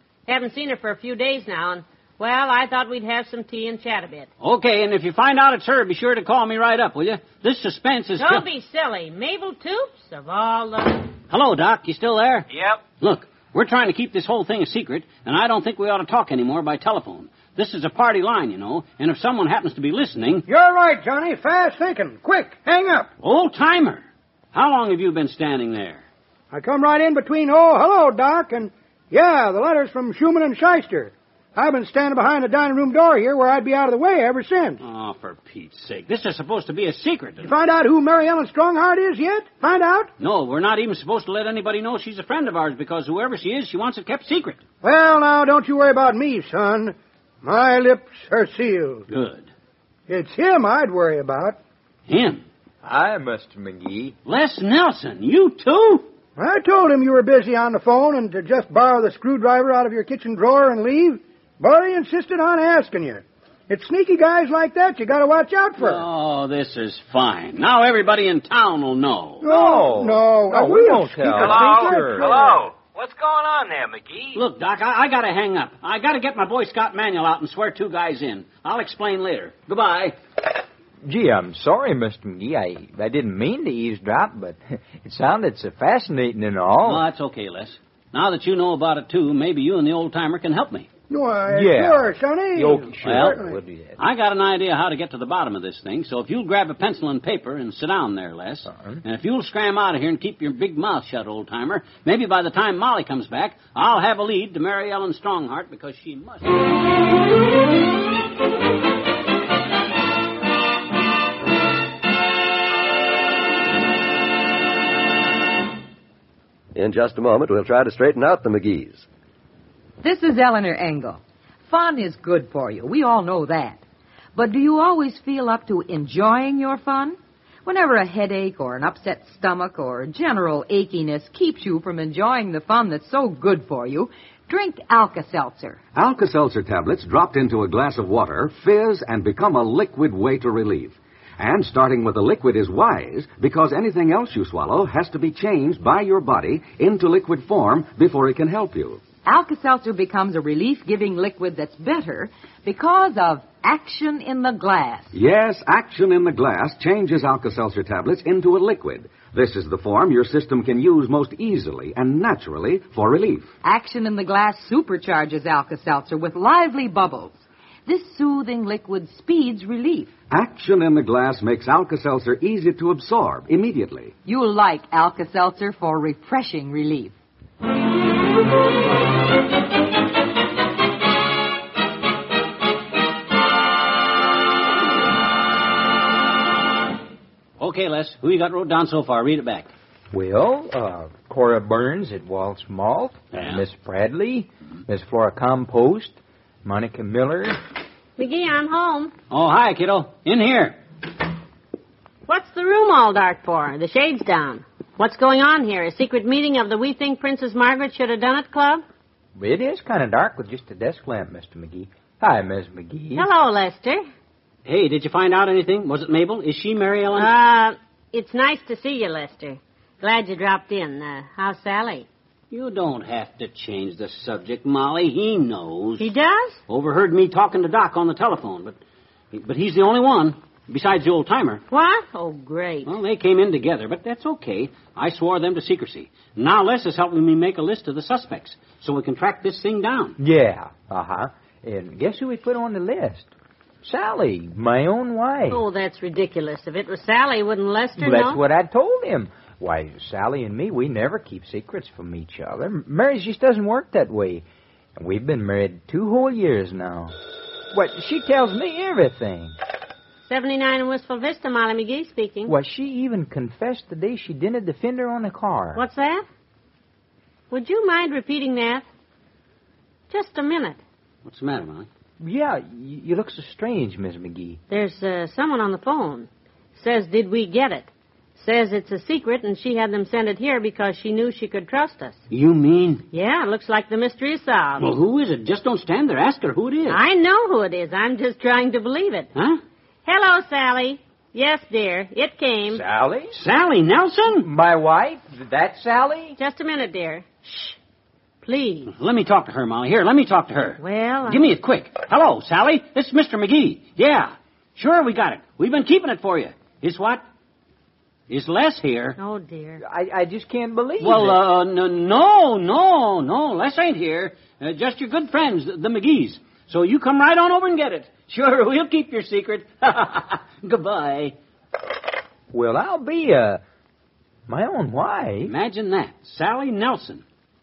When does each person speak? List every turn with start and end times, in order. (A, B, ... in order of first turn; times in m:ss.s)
0:00.3-0:04.3 A
0:04.4-0:08.4 B
0:08.2-0:11.1 A
0:11.3-0:12.5 B
0:13.0-0:20.5 B
0:20.5-0:23.1 C
0:23.2-0:26.0 B
0:26.5-0:34.8 C
0:34.8-0:37.7 B
0:37.4-0:40.1 C
0:40.2-0:44.6 B
0:44.8-0:49.0 C
0:49.1-0:49.5 B
0:50.1-0:51.6 C
0:52.1-0:52.4 B
0:52.8-0:54.2 D
0:54.2-0:56.1 B
0:56.4-1:06.0 C
1:05.8-1:09.5 B
1:09.4-1:12.7 C
1:09.5-1:12.4 D
1:11.4-1:14.3 E
1:14.3-1:20.2 B
1:21.0-1:27.1 D
1:26.8-1:30.9 B
1:31.1-1:33.6 C
1:31.5-1:34.0 D
1:33.0-1:33.4 B
1:34.0-1:46.6 B
1:38.7-1:39.0 D
1:56.8-1:59.1 F
2:00.0-2:03.8 G
2:04.4-2:15.8 G
2:16.0-2:29.0 H
2:29.2-2:35.1 G
2:35.1-2:43.5 H
2:43.6-2:50.1 G
2:50.3-2:54.1 H
2:54.2-2:57.2 G
3:07.6-3:09.7 B
3:10.1-3:17.6 D
3:13.3-3:13.6 B
3:18.2-3:19.1 A
3:19.3-3:20.8 B
3:22.3-3:28.8 A
3:29.4-3:33.3 D
3:33.2-3:34.0 A
3:34.7-3:37.3 B
3:37.1-3:42.1 A
3:42.5-3:46.1 B
3:46.0-3:46.6 A
3:46.7-3:48.8 B
3:49.3-3:51.6 B
3:51.7-3:52.9 A
3:52.9-4:00.2 B
4:00.2-4:03.3 D
4:03.8-4:05.6 D
4:05.5-4:08.4 A
4:08.0-4:14.4 D
4:15.0-4:17.1 D
4:17.7-4:19.5 D
4:20.2-4:22.6 A
4:22.5-4:25.8 D
4:25.7-4:26.2 A
4:27.5-4:28.9 A
4:30.1-4:30.8 A
4:31.2-4:31.9 B
4:32.2-4:34.6 D
4:34.7-4:42.2 A
4:42.3-4:43.0 B
4:43.1-4:44.9 A
4:44.8-4:47.0 B
4:46.9-4:49.3 A
4:50.0-4:52.8 A
4:52.7-4:53.4 D
4:53.3-4:54.5 B
4:54.4-4:56.4 D
4:56.4-4:57.8 A
4:58.4-4:58.9 A
4:58.9-5:07.2 B
5:00.8-5:01.5 A
5:08.3-5:09.2 B
5:09.2-5:09.8 A
5:09.8-5:11.4 D
5:11.0-5:21.4 B
5:22.5-5:23.6 D
5:24.5-5:25.5 D
5:25.5-5:27.2 B